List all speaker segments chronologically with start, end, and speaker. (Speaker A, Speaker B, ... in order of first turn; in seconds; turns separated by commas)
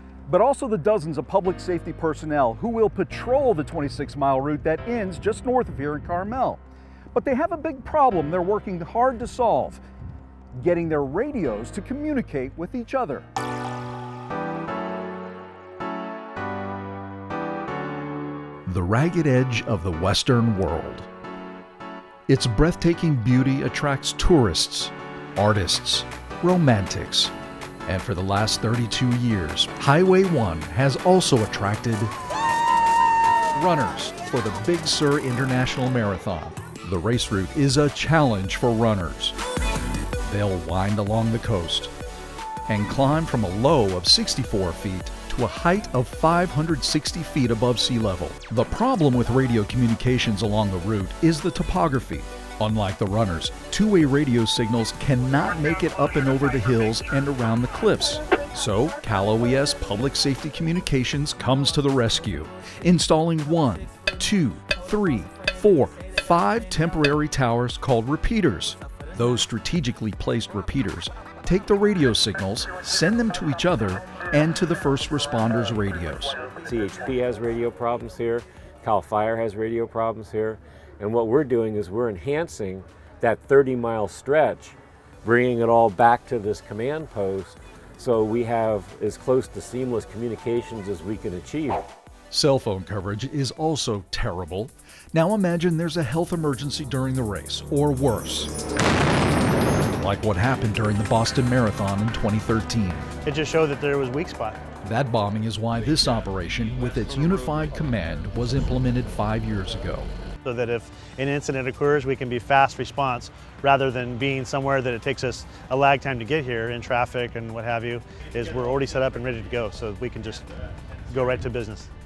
Speaker A: 0.3-6.6, Speaker A: 7.1-9.8, Speaker A: 10.6-13.2, Speaker B: 18.6-21.1, Speaker B: 22.3-27.3, Speaker B: 27.9-32.1, Speaker B: 33.5-39.3, Speaker B: 40.3-41.9, Speaker B: 42.7-76.4, Speaker C: 76.6-91.9, Speaker B: 92.3-98.5, Speaker B: 100.0-103.1, Speaker D: 103.2-104.6, Speaker B: 104.8-110.1, Speaker D: 110.4-120.5, Speaker D: 121.0-121.9